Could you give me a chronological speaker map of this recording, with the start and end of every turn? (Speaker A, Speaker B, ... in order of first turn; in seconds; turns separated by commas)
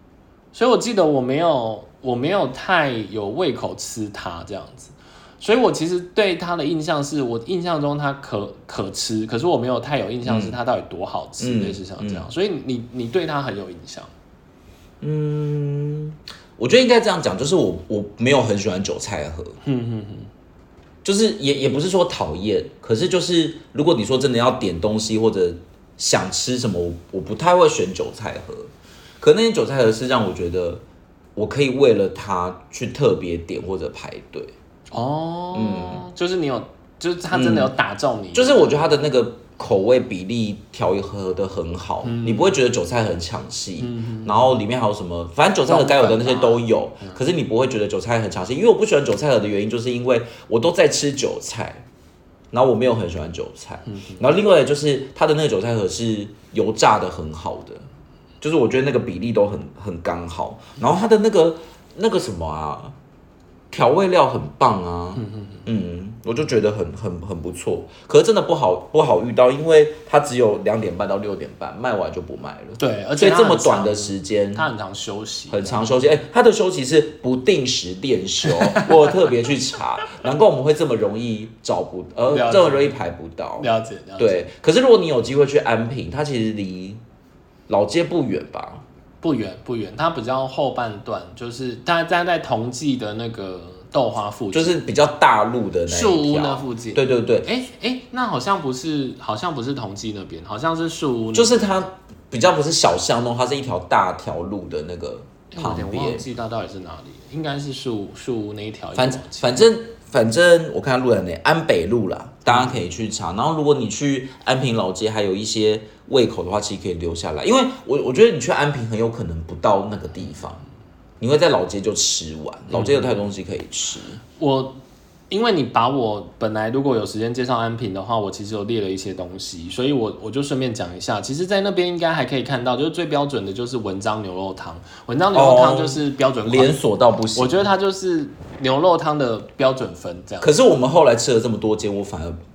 Speaker A: 0.5-14.1, Speaker B: 10.2-10.6, Speaker B: 11.4-12.3, Speaker B: 15.0-19.6, Speaker A: 19.6-20.3, Speaker B: 21.0-30.8, Speaker B: 31.3-34.5, Speaker A: 34.9-38.8, Speaker B: 35.5-36.0, Speaker B: 37.3-37.7, Speaker B: 38.3-51.8, Speaker A: 42.0-42.6, Speaker A: 43.8-44.6, Speaker A: 45.7-47.2, Speaker B: 52.5-57.9, Speaker A: 53.9-54.2, Speaker B: 58.4-62.9, Speaker B: 63.7-74.7, Speaker A: 65.2-65.6, Speaker A: 72.8-76.0, Speaker B: 75.5-83.7, Speaker A: 78.5-78.9, Speaker A: 82.3-82.9, Speaker A: 83.6-84.4, Speaker B: 84.2-87.0, Speaker B: 87.7-88.8, Speaker A: 89.2-94.8, Speaker B: 94.5-97.5, Speaker A: 95.9-101.8, Speaker B: 101.3-106.2, Speaker A: 105.5-109.6, Speaker B: 109.0-120.6, Speaker A: 112.5-112.8, Speaker B: 121.2-124.2, Speaker A: 122.7-123.1, Speaker A: 124.4-136.7, Speaker B: 135.3-137.6, Speaker A: 137.3-140.5, Speaker B: 140.4-142.4